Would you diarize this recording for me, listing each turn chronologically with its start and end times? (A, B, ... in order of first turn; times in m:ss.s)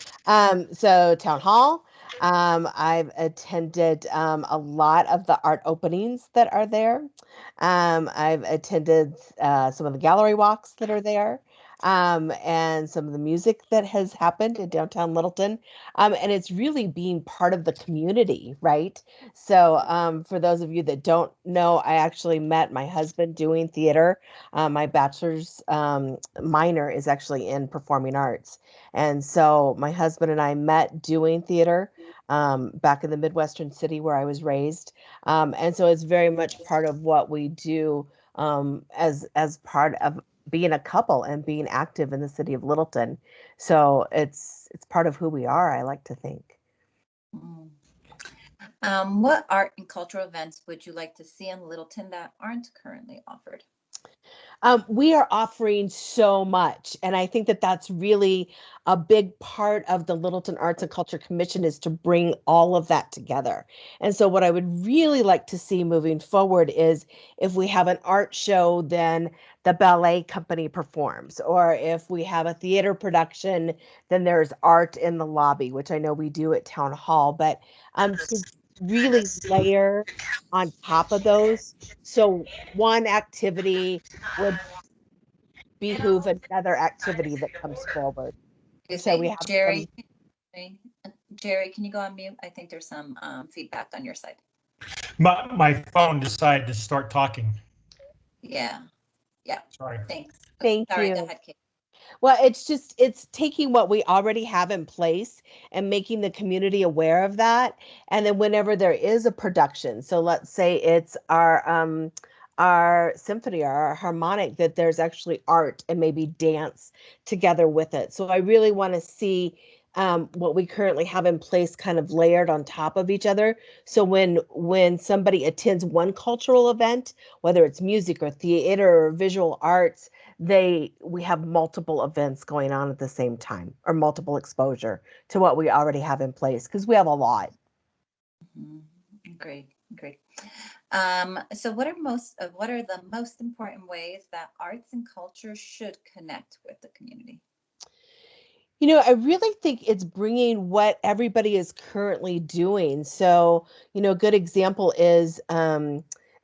0:00.3-0:07.1 A
0:07.6-0:46.5 A
0:47.3-0:47.7 B
0:48.8-0:53.6 B
0:54.6-1:24.6 A
1:25.8-1:28.3 A
1:28.9-1:30.0 B
1:29.0-1:29.9 A
1:30.5-1:34.4 B
1:35.2-1:37.6 C
1:38.4-1:38.8 B
1:39.4-1:41.5 B
1:39.8-1:40.0 C
1:40.6-1:41.3 A
1:42.2-2:17.5 A
2:18.5-2:27.4 B
2:28.8-2:36.0 A